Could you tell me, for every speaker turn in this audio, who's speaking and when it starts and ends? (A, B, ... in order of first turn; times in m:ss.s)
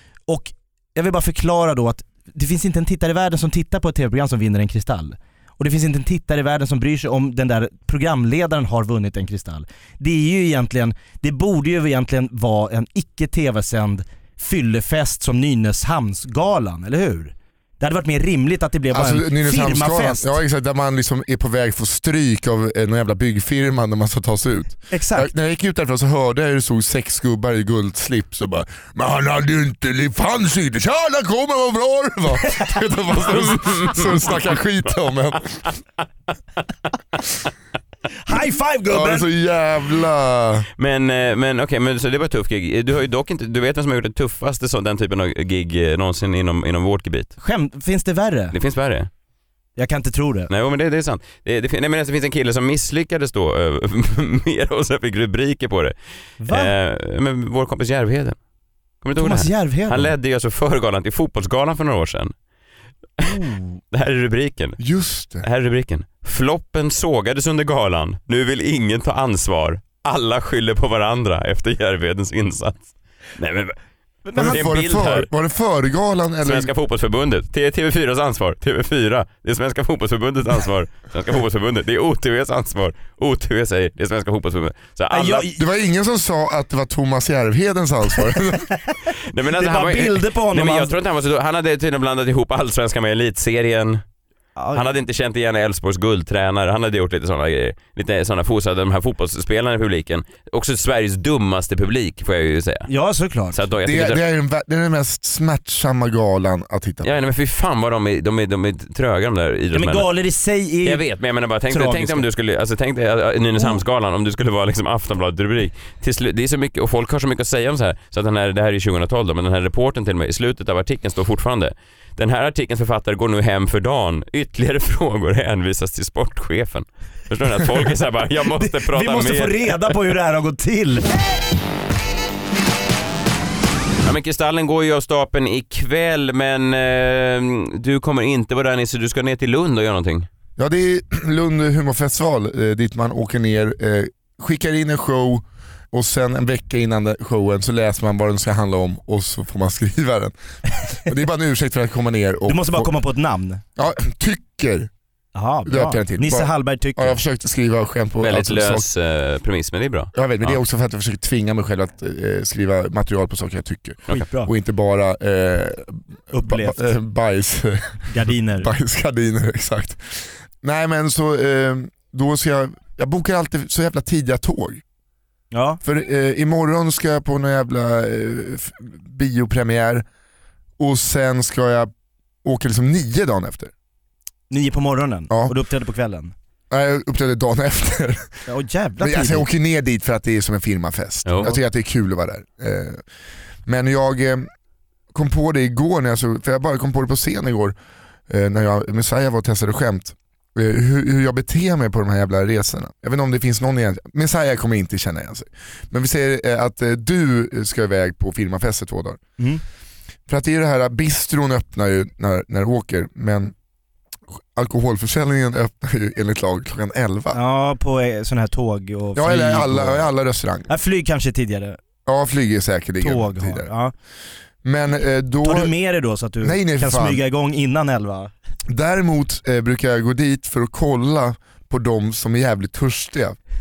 0:00.3-0:20.3 A
0:18.9-0:35.6 B
0:24.9-0:25.3 A
0:33.2-0:34.3 C
0:38.2-0:39.3 A
0:38.9-0:40.7 B
0:40.8-0:47.3 C
0:47.4-0:48.5 A
0:48.5-0:49.1 C
0:49.8-0:50.5 A
0:50.5-0:55.9 C
0:56.4-0:56.7 A
0:56.5-0:58.4 C
0:59.0-1:02.3 C
0:59.2-1:00.1 A
1:03.2-1:03.8 A
1:03.9-1:04.8 C
1:04.8-1:05.4 B
1:05.4-1:13.8 C
1:14.2-1:14.7 A
1:14.3-1:16.7 B
1:14.5-1:15.3 C
1:16.4-1:25.5 C
1:25.1-1:25.6 A
1:25.5-1:28.7 B
1:29.3-1:34.0 C
1:29.5-1:30.9 A
1:34.6-1:34.8 A
1:34.7-1:42.9 C
1:42.9-1:43.6 A
1:43.5-1:44.2 C
1:43.8-1:47.1 B
1:47.0-1:50.1 C
1:49.7-1:51.0 A
1:50.8-2:09.7 C
1:51.7-1:52.2 A
1:53.6-1:53.8 A
2:08.5-2:11.1 A
2:14.0-2:20.3 C
2:20.6-2:30.3 B
2:30.9-2:32.9 B
2:32.5-2:33.6 A
2:33.8-2:34.9 B
2:35.3-2:37.2 A
2:35.6-2:38.9 B
2:38.2-2:40.6 C
2:40.1-2:48.0 B
2:44.1-2:44.5 A
2:46.3-2:46.9 A
2:48.1-2:48.7 A
2:48.6-2:54.8 B
2:55.5-2:55.8 A
2:55.8-3:00.0 B
3:00.8-3:01.9 B
3:02.4-3:03.7 B
3:04.5-3:06.3 A
3:06.7-3:08.3 B
3:08.5-3:09.4 A
3:09.0-3:13.0 B
3:11.2-3:11.6 C
3:13.6-3:14.5 B
3:15.1-3:17.7 B
3:18.3-3:29.2 B
3:30.3-3:33.5 B
3:34.5-3:37.4 B
3:37.3-3:40.0 A
3:39.1-3:40.7 B
3:40.7-3:41.8 A
3:42.0-3:43.7 B
3:43.0-3:43.9 A
3:44.6-3:45.7 B
3:45.4-3:48.3 A
3:46.4-3:47.2 B
3:48.7-3:53.4 B